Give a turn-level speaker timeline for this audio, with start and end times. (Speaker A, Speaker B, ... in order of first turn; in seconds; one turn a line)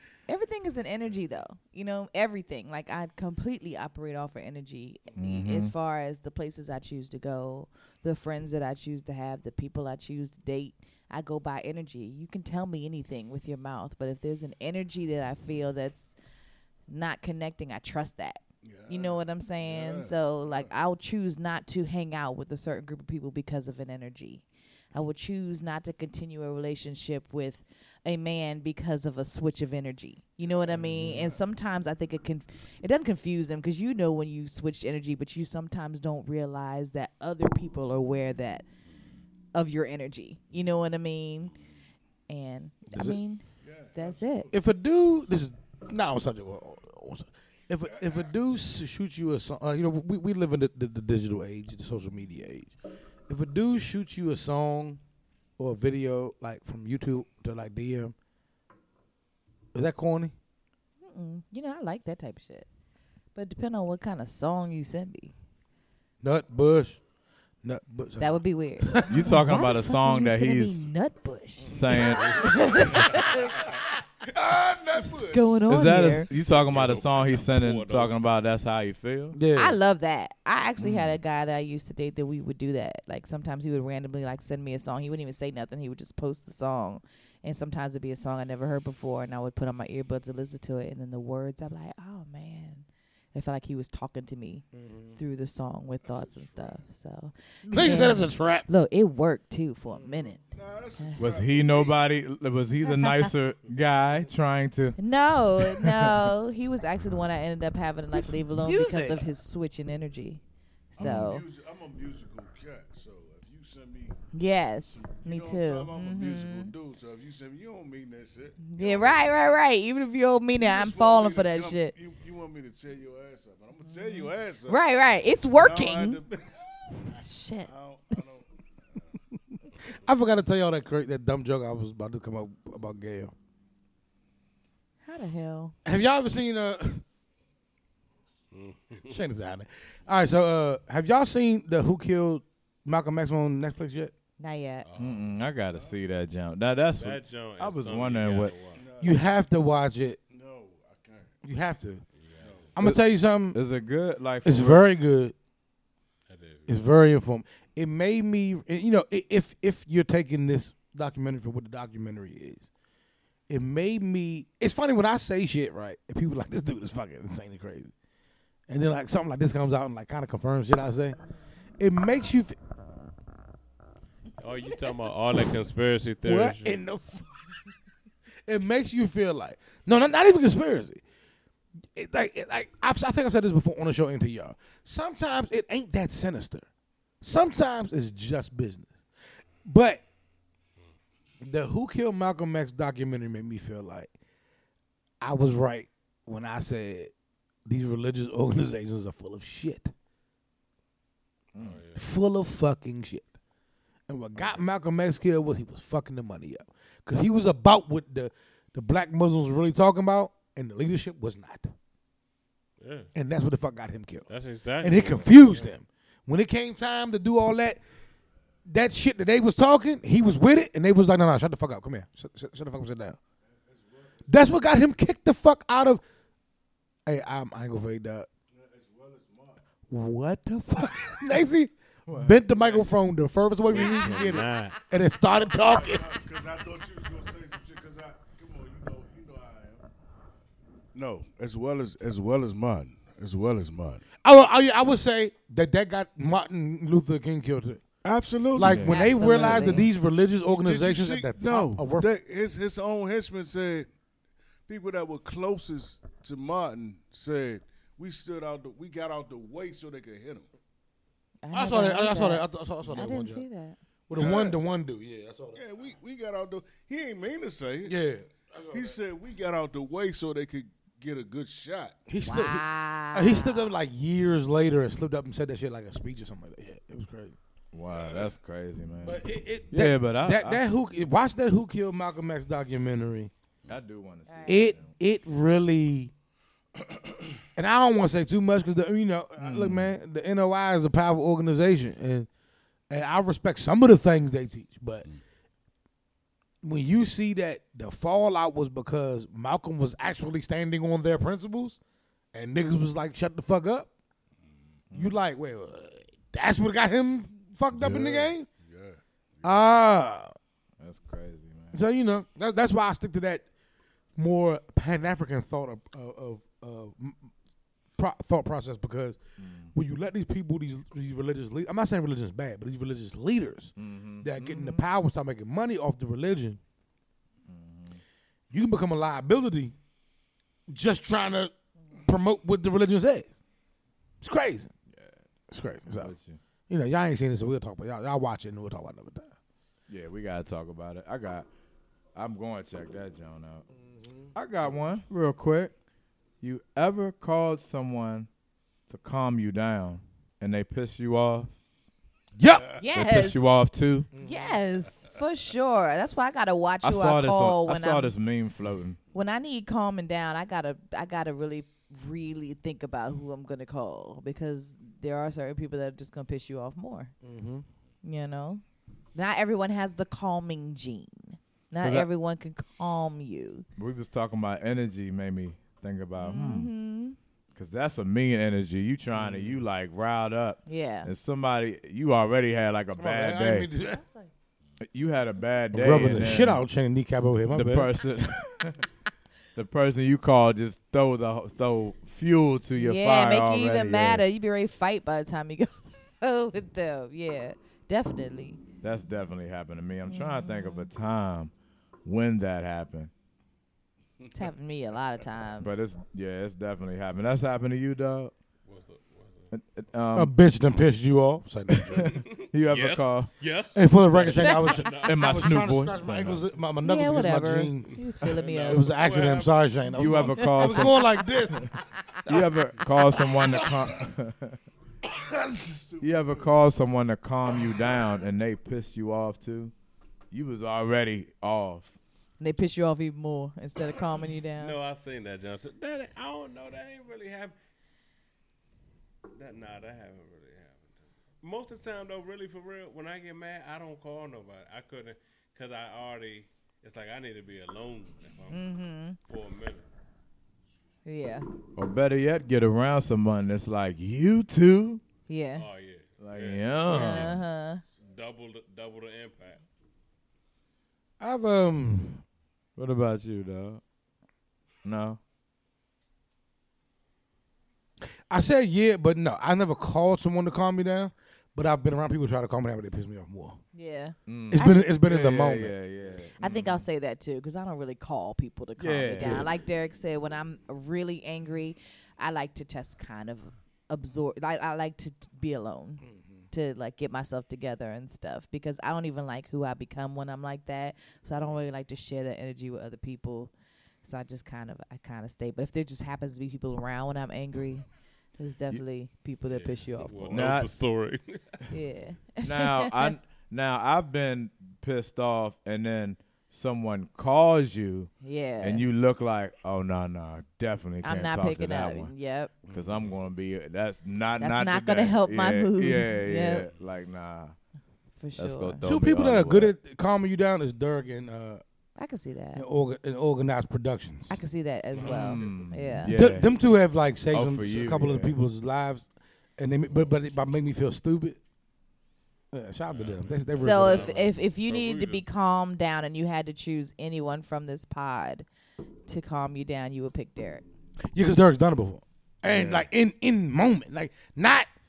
Speaker A: 0.3-16.1
Speaker B: 5.2-5.7
Speaker A: 16.9-38.7
Speaker C: 18.6-20.7
Speaker C: 30.4-31.4
Speaker A: 39.5-41.6
Speaker A: 42.3-44.5
Speaker D: 42.9-43.2
Speaker C: 43.6-44.5
Speaker D: 44.5-52.8
Speaker C: 48.0-48.3
Speaker D: 53.3-55.0
Speaker D: 55.6-58.1
Speaker D: 59.7-60.3
Speaker A: 61.0-62.7
Speaker A: 63.4-65.3
Speaker D: 66.2-67.0
Speaker D: 67.6-69.4
Speaker A: 68.2-73.8
Speaker B: 69.1-70.8
Speaker B: 71.6-72.8
Speaker C: 72.5-73.2
Speaker C: 74.2-75.6
Speaker A: 75.0-76.3
Speaker B: 75.7-79.4
Speaker E: 76.3-78.2
Speaker D: 79.3-79.8
Speaker A: 79.5-100.4
Speaker B: 80.8-81.2
Speaker D: 94.7-95.2
Speaker C: 96.1-96.8
Speaker D: 97.7-98.7
Speaker C: 100.2-102.0
Speaker A: 101.0-101.2
Speaker B: 101.2-105.0
Speaker A: 102.9-103.3
Speaker A: 105.0-110.4
Speaker B: 105.6-106.3
Speaker D: 108.2-109.2
Speaker A: 110.9-111.5
Speaker C: 111.0-114.2
Speaker B: 111.0-111.3
Speaker A: 114.3-116.7
Speaker C: 114.8-119.5
Speaker A: 118.6-121.9
Speaker C: 120.6-124.8
Speaker A: 123.9-126.2
Speaker C: 125.5-129.2
Speaker A: 127.2-127.7
Speaker D: 129.9-133.3
Speaker A: 135.0-135.8
Speaker D: 135.8-137.0
Speaker E: 138.5-139.2
Speaker D: 139.1-144.1
Speaker A: 144.4-144.9
Speaker E: 144.8-145.3
Speaker B: 145.0-148.6
Speaker E: 147.0-148.8
Speaker C: 148.7-149.3
Speaker D: 149.0-150.2
Speaker C: 150.3-151.3
Speaker D: 151.4-152.0
Speaker E: 152.2-152.6
Speaker C: 152.4-152.8
Speaker D: 152.8-153.6
Speaker B: 152.8-154.8
Speaker D: 154.4-155.3
Speaker E: 156.3-156.8
Speaker D: 156.7-162.7
Speaker D: 163.5-167.9
Speaker D: 168.7-171.2
Speaker D: 171.8-172.6
Speaker E: 174.4-176.8
Speaker D: 176.2-177.4
Speaker D: 178.5-181.0
Speaker D: 181.9-186.7
Speaker D: 187.2-189.0
Speaker D: 189.7-190.0
Speaker D: 191.4-194.1
Speaker D: 195.2-197.1
Speaker D: 197.7-199.9
Speaker B: 201.5-201.8
Speaker E: 201.6-202.0
Speaker D: 201.9-203.3
Speaker D: 204.1-211.7
Speaker E: 212.8-213.1
Speaker D: 213.1-214.3
Speaker E: 214.3-215.7
Speaker D: 214.8-217.8
Speaker D: 218.7-223.2
Speaker C: 223.5-224.4
Speaker D: 224.3-226.0
Speaker D: 227.1-228.3
Speaker C: 228.5-229.6
Speaker D: 229.9-236.1
Speaker B: 232.1-232.8
Speaker E: 233.7-234.8
Speaker A: 233.8-234.2
Speaker C: 235.5-239.8
Speaker C: 240.9-244.1
Speaker D: 244.2-247.8
Speaker C: 248.0-249.7
Speaker D: 248.6-252.1
Speaker B: 248.6-249.8
Speaker A: 248.8-249.9
Speaker C: 250.4-253.9
Speaker C: 254.7-260.5
Speaker A: 261.4-263.8
Speaker D: 261.5-263.5
Speaker D: 264.1-265.6
Speaker C: 264.1-264.6
Speaker C: 265.5-268.0
Speaker D: 267.9-269.0
Speaker C: 268.7-272.0
Speaker D: 272.1-277.4
Speaker A: 272.2-273.7
Speaker B: 277.7-280.6
Speaker C: 278.0-278.3
Speaker D: 279.0-283.3
Speaker B: 283.7-284.9
Speaker A: 284.3-284.8
Speaker D: 284.5-286.1
Speaker C: 286.8-287.3
Speaker D: 287.6-292.3
Speaker B: 289.4-289.9
Speaker D: 292.9-295.1
Speaker D: 296.6-301.8
Speaker D: 302.3-303.9
Speaker B: 304.9-305.2
Speaker D: 304.9-308.5
Speaker C: 307.8-309.6
Speaker D: 309.4-310.4
Speaker B: 310.8-311.8
Speaker D: 311.7-313.4
Speaker D: 314.2-317.3
Speaker D: 318.0-319.2
Speaker B: 319.4-319.7
Speaker D: 319.7-326.6
Speaker B: 323.8-324.9
Speaker B: 327.5-328.0
Speaker D: 328.5-329.8
Speaker D: 330.7-333.4
Speaker D: 334.2-334.7
Speaker D: 335.5-336.1
Speaker B: 335.9-336.4
Speaker D: 336.7-339.4
Speaker B: 339.9-341.5
Speaker B: 342.1-343.7
Speaker D: 343.9-344.3
Speaker B: 344.3-345.7
Speaker B: 346.4-348.3
Speaker B: 348.9-351.5
Speaker D: 352.4-352.7
Speaker A: 352.8-353.7
Speaker B: 352.9-354.1
Speaker D: 354.1-354.6
Speaker A: 354.2-358.1
Speaker B: 356.8-359.0
Speaker A: 359.1-367.1
Speaker D: 367.2-367.6
Speaker A: 368.0-368.6
Speaker A: 369.1-373.7
Speaker D: 371.8-372.1
Speaker B: 373.8-376.7
Speaker A: 376.2-377.2
Speaker B: 377.6-383.7
Speaker A: 380.7-381.1
Speaker D: 383.0-384.0
Speaker A: 383.9-384.3
Speaker B: 384.8-386.6
Speaker D: 385.7-387.9
Speaker B: 387.5-388.8
Speaker B: 389.6-394.2
Speaker A: 392.8-398.6
Speaker B: 398.8-401.5
Speaker A: 400.1-400.9
Speaker B: 402.1-403.1
Speaker A: 404.3-405.8
Speaker B: 405.6-408.3
Speaker E: 408.7-409.5
Speaker B: 409.5-410.3
Speaker D: 410.1-412.2
Speaker B: 411.9-413.3
Speaker E: 412.0-416.4
Speaker D: 413.8-418.1
Speaker A: 414.4-414.8
Speaker B: 414.9-416.4
Speaker A: 416.8-418.9
Speaker E: 418.2-419.7
Speaker D: 418.6-421.7
Speaker B: 419.9-421.2
Speaker A: 420.4-421.0
Speaker B: 422.3-424.6
Speaker C: 423.6-424.0
Speaker C: 425.0-426.5
Speaker B: 426.0-429.7
Speaker B: 430.3-431.9
Speaker A: 432.4-434.8
Speaker E: 434.6-437.6
Speaker E: 439.3-448.7
Speaker A: 448.5-449.2
Speaker E: 449.2-449.9
Speaker A: 451.1-451.5
Speaker B: 451.8-455.0
Speaker A: 455.3-455.6
Speaker E: 455.6-457.4
Speaker B: 456.2-457.4
Speaker A: 456.9-457.8
Speaker E: 458.0-459.6
Speaker D: 461.2-462.2
Speaker B: 462.8-463.8
Speaker B: 464.8-465.2
Speaker D: 468.3-473.6
Speaker A: 473.7-474.9
Speaker B: 474.3-476.9
Speaker D: 474.5-475.8
Speaker A: 476.4-493.5
Speaker B: 478.8-479.5
Speaker D: 479.2-479.5
Speaker D: 486.0-486.4
Speaker A: 494.0-497.9
Speaker A: 498.4-500.5
Speaker E: 499.5-501.7
Speaker B: 500.3-500.7
Speaker A: 501.7-503.1
Speaker B: 502.4-512.1
Speaker A: 508.2-508.9
Speaker A: 511.0-512.5
Speaker D: 512.7-512.9
Speaker B: 512.7-517.5
Speaker A: 514.4-516.7
Speaker A: 518.2-518.9
Speaker B: 518.4-519.7
Speaker D: 518.8-521.6
Speaker A: 522.0-522.6
Speaker D: 522.5-524.4
Speaker A: 524.3-526.1
Speaker E: 524.9-525.7
Speaker B: 525.0-526.5
Speaker D: 526.0-531.4
Speaker B: 527.3-528.4
Speaker D: 532.5-534.2
Speaker E: 532.9-535.3
Speaker A: 533.5-538.5
Speaker A: 539.1-540.6
Speaker D: 541.1-544.7
Speaker B: 542.4-542.9